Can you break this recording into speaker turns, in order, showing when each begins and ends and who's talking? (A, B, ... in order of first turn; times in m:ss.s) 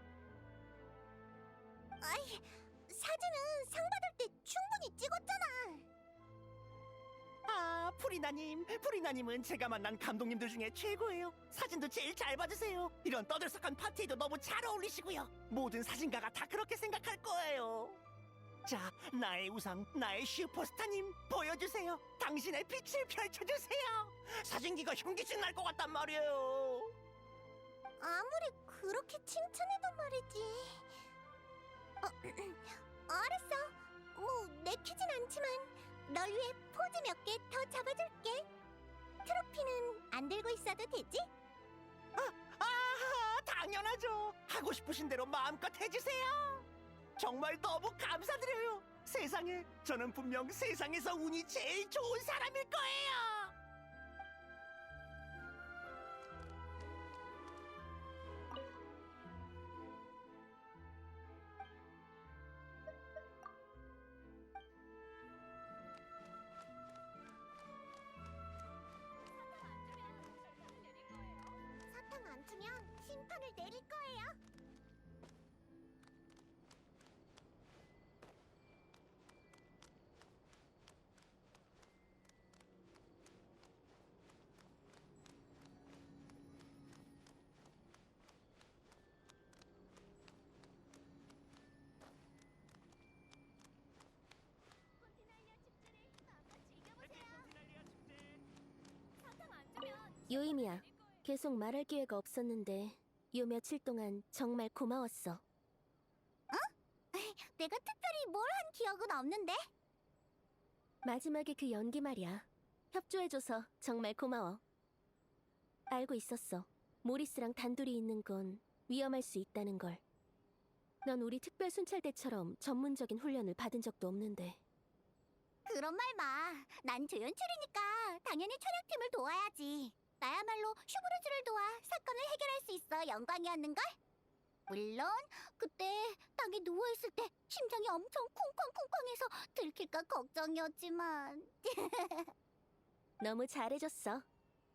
0:02.0-0:05.8 A
0:07.4-0:18.0 B
0:18.6-0:26.9 B
0:28.0-0:31.0 A
0:32.0-0:38.5 A
0:39.2-0:41.3 A
0:42.2-0:53.5 B
1:11.9-1:14.4 A
1:35.1-1:37.0 C
1:37.0-1:38.4 B
1:39.3-1:45.4 C
1:46.5-1:49.6 A
1:51.0-1:54.6 C
1:55.9-2:00.0 C
2:01.0-2:04.6 C
2:05.7-2:13.9 A
2:14.7-2:22.3 A
2:23.2-2:24.2 C